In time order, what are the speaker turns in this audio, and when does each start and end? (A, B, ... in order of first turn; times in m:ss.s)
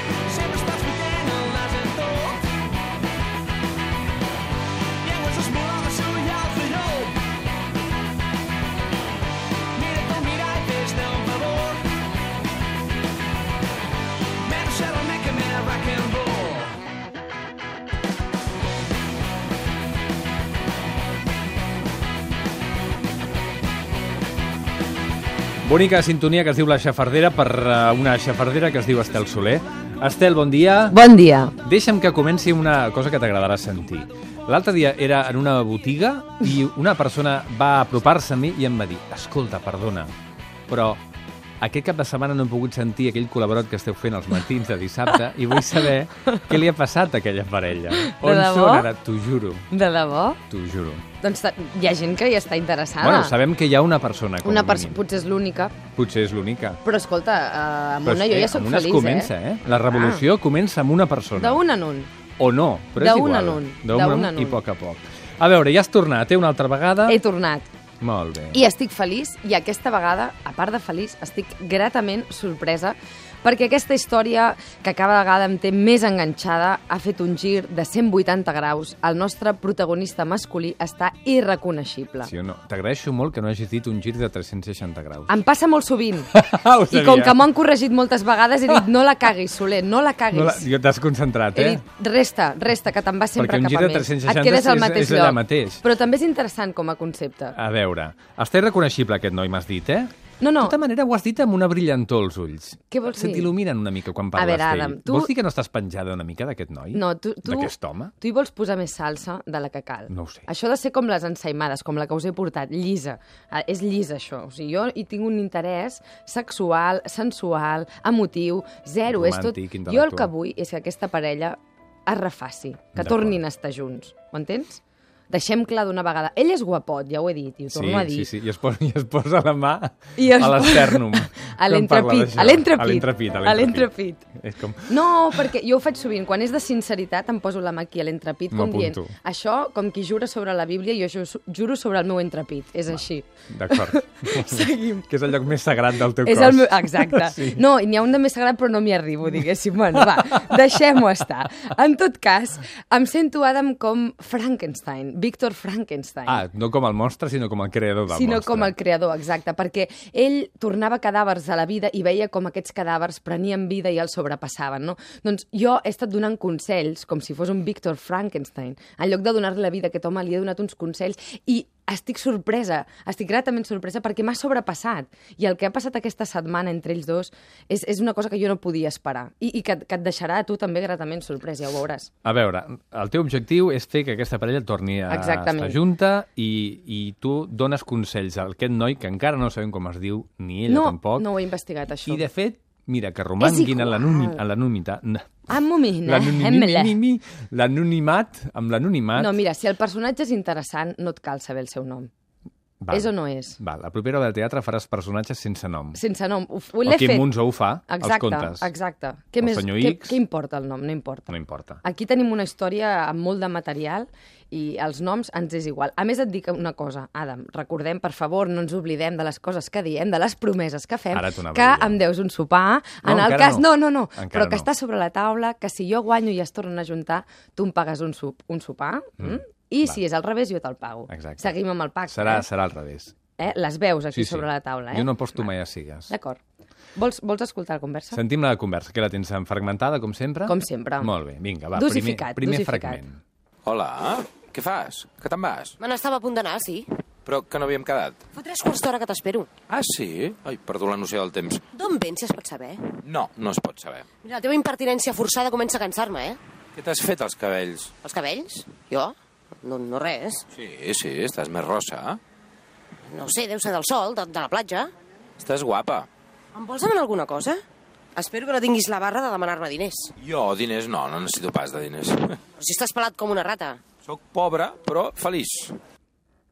0:00.2-0:02.4 A
0:05.0-0:07.2 A
0:09.7-0:11.9 A
0:14.4-0:16.7 A
0:25.6-0:31.0 B
0:30.9-0:31.6 C
0:31.6-0:40.1 B
0:40.7-0:41.0 B
0:41.6-0:49.6 B
0:45.5-0:46.4 C
0:48.0-0:48.9 C
0:49.7-0:50.4 C
0:50.5-0:51.0 B
0:51.2-0:53.4 C
0:53.0-0:55.0 B
0:54.4-0:55.8 C
0:55.9-0:56.8 B
0:56.8-0:59.3 C
0:58.0-1:01.6 B
0:59.9-1:00.2 C
1:01.4-1:02.1 C
1:02.4-1:07.2 B
1:03.0-1:04.6 C
1:07.1-1:07.7 C
1:08.0-1:08.6 B
1:08.5-1:22.3 C
1:22.2-1:25.3 B
1:25.3-1:30.7 C
1:26.3-1:27.4 B
1:30.3-1:31.8 B
1:31.5-1:37.6 C
1:33.4-1:35.8 B
1:37.5-1:48.1 B
1:40.4-1:40.8 C
1:42.9-1:43.5 C
1:44.3-1:45.3 C
1:46.9-2:08.3 C
1:50.1-1:50.4 B
1:59.1-2:00.3 B
2:02.9-2:03.4 B
2:07.7-2:15.5 B
2:10.2-2:14.2 C
2:14.9-2:25.1 C
2:18.5-2:19.1 B
2:23.5-2:27.6 B
2:26.2-2:36.4 C
2:36.2-2:38.7 B
2:38.1-3:02.1 C
3:02.2-3:11.3 B
3:05.1-3:05.8 C
3:10.7-3:12.2 C
3:12.0-3:15.4 B
3:13.4-3:14.4 C
3:15.5-3:17.0 C
3:16.0-3:19.4 B
3:19.1-3:22.1 C
3:22.8-3:26.0 B
3:22.9-3:23.6 C
3:25.9-3:27.3 C
3:26.8-3:28.7 B
3:27.9-3:52.4 C
3:29.4-3:30.2 B
3:31.3-3:31.8 B
3:41.1-3:42.0 B
3:43.0-3:44.7 B
3:49.2-3:50.0 B
3:51.1-3:51.6 B
3:52.1-3:53.2 B
3:53.4-3:55.5 C
3:54.1-3:56.1 B
3:56.1-3:56.4 C
3:56.9-3:58.2 C
3:58.1-4:03.2 B
4:00.4-4:01.1 C
4:01.7-4:03.0 C
4:03.6-4:05.8 D
4:05.8-4:06.9 E
4:07.2-4:08.2 D
4:08.3-4:09.5 E
4:09.7-4:11.6 D
4:11.7-4:12.8 E
4:13.0-4:14.0 D
4:14.2-4:16.4 E
4:16.8-4:17.9 D
4:18.0-4:20.4 E
4:20.5-4:22.2 D
4:23.1-4:24.9 E
4:25.4-4:26.1 D
4:26.5-4:27.6 E
4:28.2-4:30.1 E
4:30.2-4:32.4 D
4:32.6-4:33.8 E
4:34.0-4:35.8 D